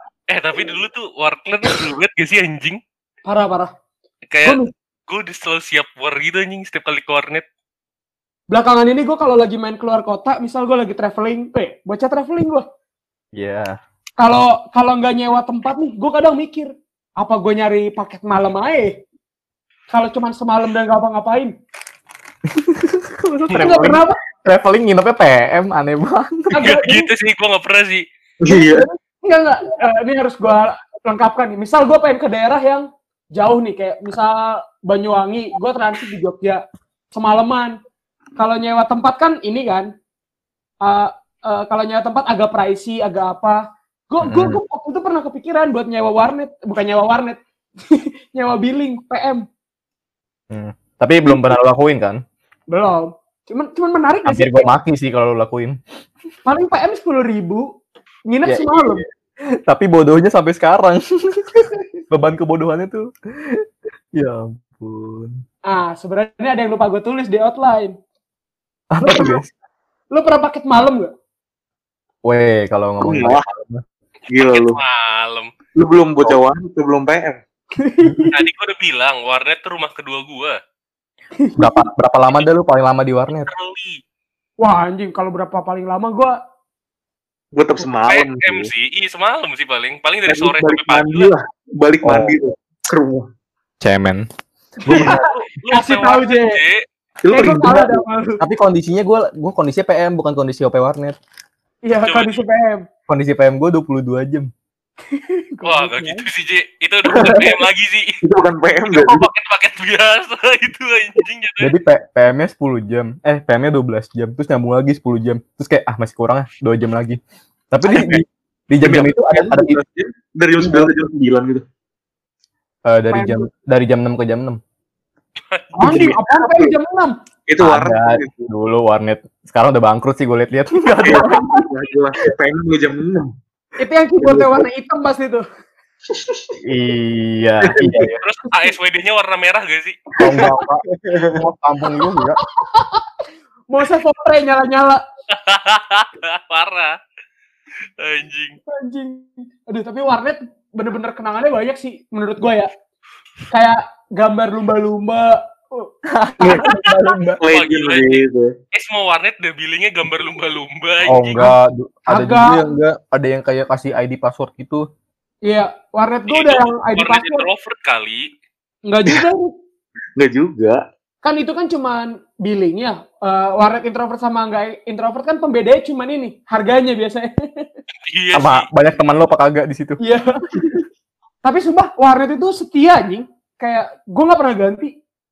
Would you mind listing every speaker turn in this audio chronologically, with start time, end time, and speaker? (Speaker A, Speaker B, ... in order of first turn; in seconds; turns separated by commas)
Speaker A: 0.3-2.8, Speaker B: 3.2-3.7, Speaker A: 4.3-7.4, Speaker B: 4.4-4.7, Speaker B: 8.5-12.6, Speaker C: 13.3-13.8, Speaker B: 14.2-19.0, Speaker B: 19.9-21.5, Speaker C: 22.5-26.6, Speaker B: 23.6-24.2, Speaker B: 26.5-27.1, Speaker A: 26.6-28.0, Speaker D: 28.4-28.9, Speaker B: 28.5-37.8, Speaker B: 38.4-39.9, Speaker B: 40.8-49.5, Speaker C: 44.2-44.6, Speaker C: 50.5-52.2, Speaker B: 52.7-54.7, Speaker C: 54.2-55.8, Speaker B: 56.5-57.7, Speaker B: 58.3-59.0, Speaker C: 58.4-59.0, Speaker C: 59.7-65.4, Speaker B: 65.7-67.9, Speaker C: 68.9-69.5, Speaker B: 69.0-69.4, Speaker B: 70.1-71.1, Speaker C: 72.2-73.8, Speaker D: 73.0-73.4, Speaker D: 74.3-74.8, Speaker A: 74.3-75.5, Speaker D: 75.8-77.4, Speaker B: 77.8-78.3, Speaker C: 78.0-78.3, Speaker A: 78.3-80.6, Speaker B: 81.4-81.8, Speaker C: 81.6-83.5, Speaker A: 83.5-84.0, Speaker B: 84.6-86.3, Speaker D: 87.5-88.7, Speaker A: 88.1-91.3, Speaker D: 90.3-93.3, Speaker C: 92.0-92.3, Speaker C: 93.8-94.3, Speaker C: 94.8-95.2, Speaker B: 94.9-96.6, Speaker A: 95.2-96.8, Speaker D: 97.2-98.0, Speaker B: 97.3-98.4, Speaker C: 98.4-101.2, Speaker B: 101.8-102.8, Speaker A: 102.0-102.4, Speaker C: 103.1-104.5, Speaker B: 105.1-106.2, Speaker A: 105.6-108.2, Speaker D: 108.2-109.3, Speaker A: 108.9-111.7, Speaker C: 111.6-117.2, Speaker C: 117.7-119.8, Speaker D: 117.9-118.2, Speaker D: 118.8-121.6, Speaker C: 120.5-120.9, Speaker C: 122.8-124.6, Speaker B: 123.1-123.5, Speaker B: 125.8-127.1, Speaker D: 125.8-126.7, Speaker D: 127.5-128.5, Speaker C: 127.6-131.5, Speaker B: 130.9-131.6, Speaker D: 131.0-133.3, Speaker B: 133.8-135.4, Speaker D: 134.2-134.6, Speaker D: 136.1-136.5, Speaker C: 136.6-138.2, Speaker D: 137.7-138.1, Speaker A: 138.2-139.9, Speaker C: 140.2-142.4, Speaker D: 140.2-141.4, Speaker B: 142.1-143.1, Speaker B: 143.7-145.0, Speaker A: 145.3-146.9, Speaker A: 148.0-148.6, Speaker B: 148.7-152.7, Speaker B: 153.5-156.8, Speaker C: 156.1-157.4, Speaker D: 157.4-158.5, Speaker A: 157.5-161.5, Speaker C: 161.1-164.8, Speaker B: 162.1-162.7, Speaker B: 165.4-167.4, Speaker A: 166.3-168.3, Speaker B: 168.9-169.5, Speaker D: 170.2-170.8, Speaker B: 171.2-177.7, Speaker A: 178.1-178.7, Speaker C: 178.3-180.0, Speaker B: 180.0-180.8, Speaker B: 181.4-184.9